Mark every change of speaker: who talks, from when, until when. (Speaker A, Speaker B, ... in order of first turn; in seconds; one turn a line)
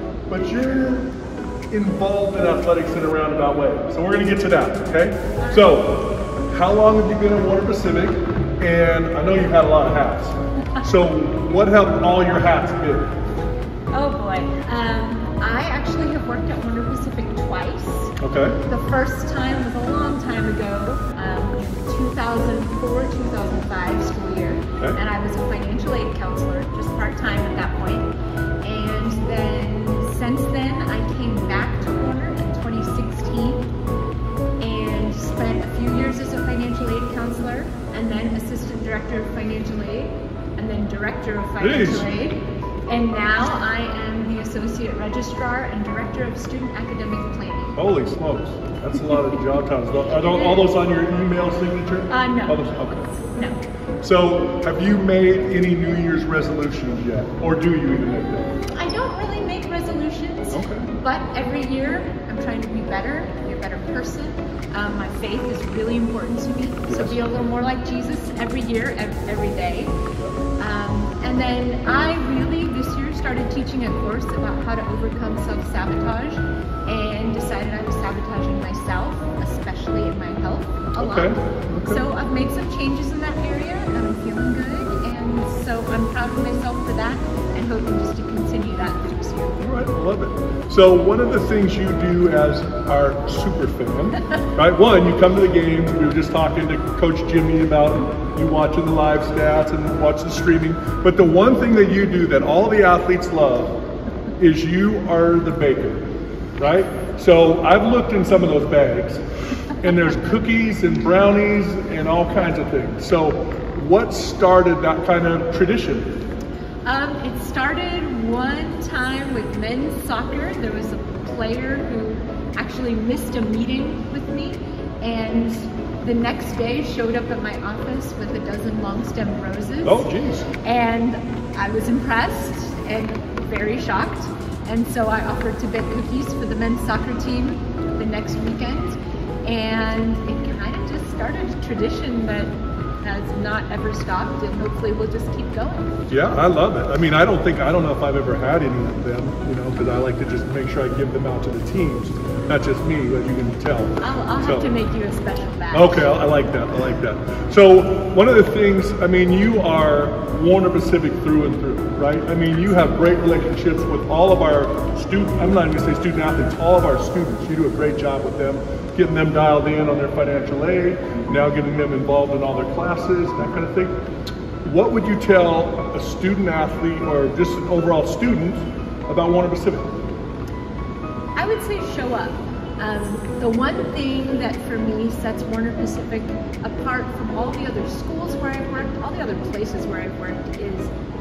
Speaker A: 0.3-1.1
Speaker A: 1.7-13.1
Speaker B: 5.4-5.7
Speaker B: 13.9-28.1
Speaker A: 18.2-18.6
Speaker B: 28.6-33.7
Speaker B: 34.6-47.8
Speaker A: 41.6-42.1
Speaker A: 47.8-53.0
Speaker B: 50.1-50.7
Speaker B: 52.1-53.6
Speaker A: 54.0-58.6
Speaker B: 58.7-70.0
Speaker A: 60.5-60.9
Speaker A: 66.9-67.4
Speaker B: 70.6-89.6
Speaker A: 81.0-82.0
Speaker A: 89.6-103.8
Speaker A: 104.4-106.0
Speaker A: 106.6-116.2
Speaker B: 116.8-130.1
Speaker A: 129.8-130.5
Speaker B: 130.6-146.1
Speaker A: 146.1-154.7
Speaker B: 154.0-156.1
Speaker A: 155.7-173.9
Speaker A: 174.6-179.9
Speaker B: 181.3-190.9